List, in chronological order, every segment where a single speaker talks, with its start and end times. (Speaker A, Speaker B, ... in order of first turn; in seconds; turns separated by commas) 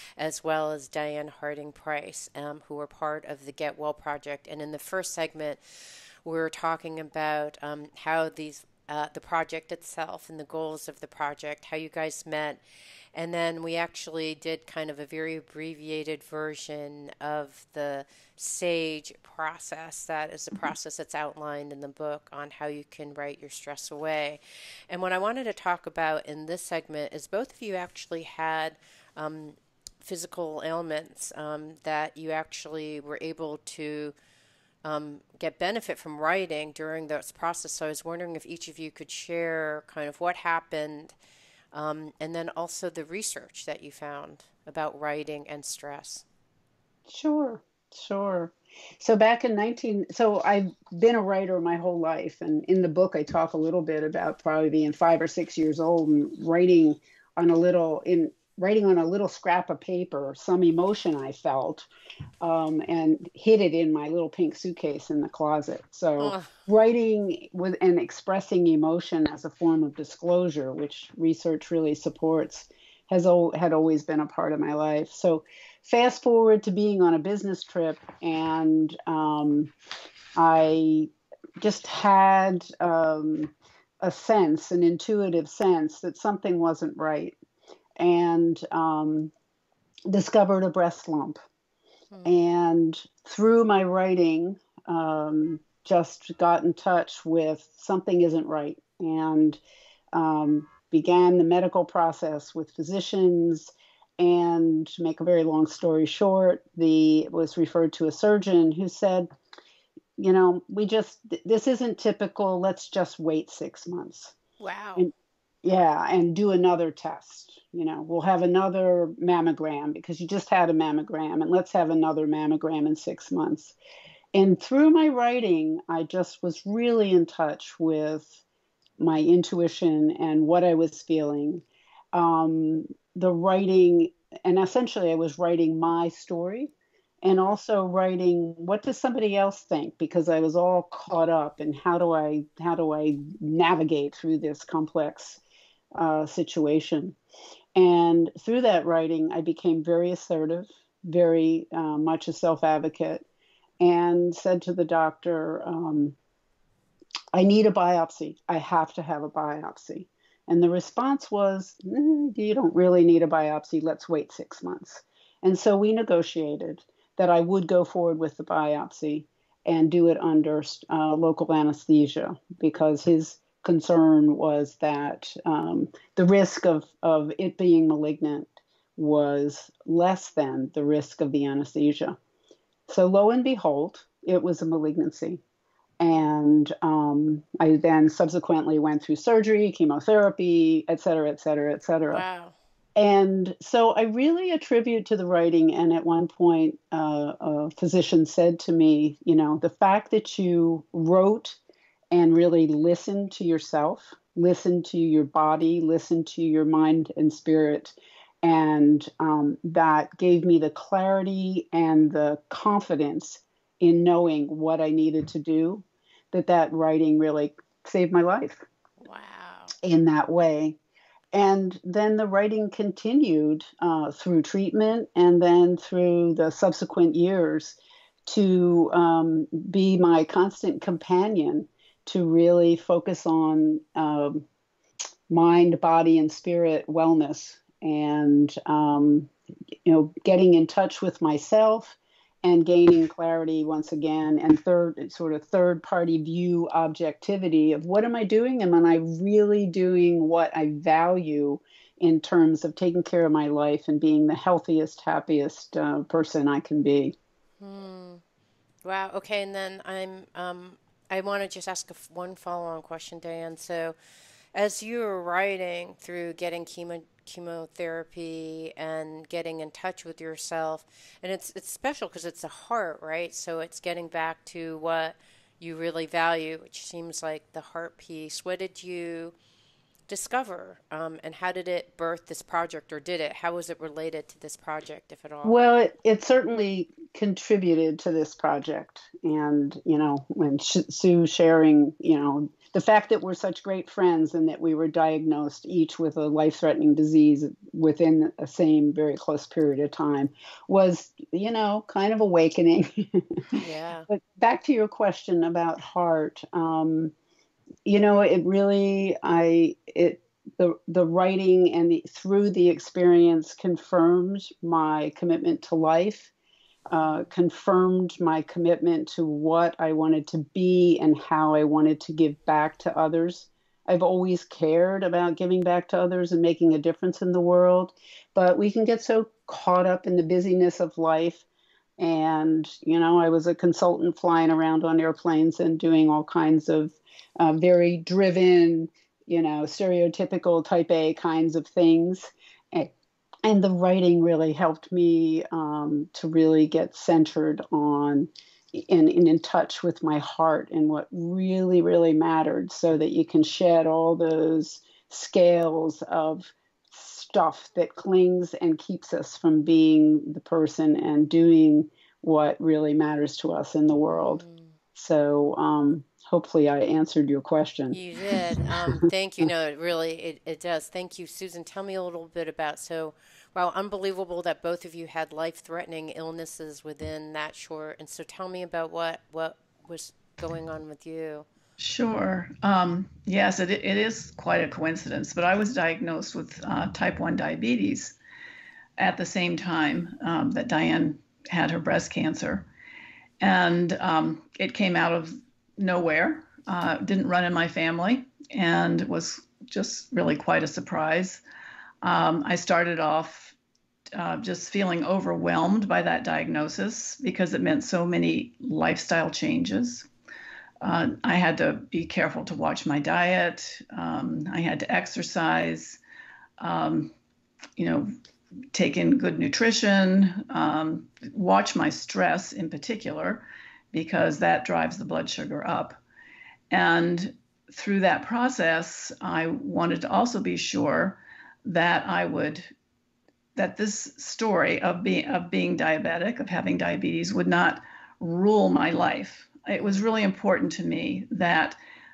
Speaker A: 0.2-5.6, Speaker A: 6.2-12.6, Speaker A: 13.2-34.1, Speaker A: 34.8-41.1, Speaker A: 41.7-46.2, Speaker B: 47.1-61.9, Speaker B: 62.4-79.7, Speaker A: 66.2-66.5, Speaker B: 80.4-87.4, Speaker B: 88.0-89.3, Speaker B: 90.1-91.4, Speaker A: 92.1-92.5, Speaker B: 92.2-99.6, Speaker B: 100.1-109.3, Speaker B: 110.2-114.3, Speaker A: 114.6-115.1, Speaker B: 115.6-123.8, Speaker B: 124.3-128.4, Speaker B: 129.0-136.7, Speaker B: 137.2-145.4, Speaker B: 145.9-147.2, Speaker B: 147.8-153.2, Speaker B: 153.8-156.2, Speaker B: 157.3-182.2, Speaker B: 182.9-185.4, Speaker B: 186.0-192.2, Speaker A: 192.1-192.6, Speaker B: 193.0-201.6, Speaker B: 202.1-218.7, Speaker A: 219.0-219.7, Speaker B: 219.8-220.8, Speaker B: 221.3-234.4, Speaker B: 235.3-239.3, Speaker B: 239.8-257.1, Speaker A: 257.6-258.2, Speaker A: 258.9-264.0, Speaker A: 264.5-279.3, Speaker A: 280.1-285.6, Speaker B: 285.4-303.3, Speaker A: 303.6-304.1, Speaker B: 304.1-307.1, Speaker B: 307.9-316.3, Speaker B: 316.9-331.4, Speaker A: 317.0-317.3, Speaker B: 332.0-342.9, Speaker B: 343.5-364.4, Speaker A: 364.1-364.8, Speaker B: 364.9-368.0, Speaker A: 367.9-381.5, Speaker C: 381.8-388.2, Speaker C: 389.0-392.7, Speaker C: 393.4-401.4, Speaker C: 402.0-403.6, Speaker C: 404.1-410.1, Speaker C: 410.8-416.0, Speaker C: 416.6-417.1, Speaker C: 417.8-418.1, Speaker C: 418.7-426.0, Speaker C: 426.7-432.7, Speaker C: 433.6-441.8, Speaker A: 439.8-440.1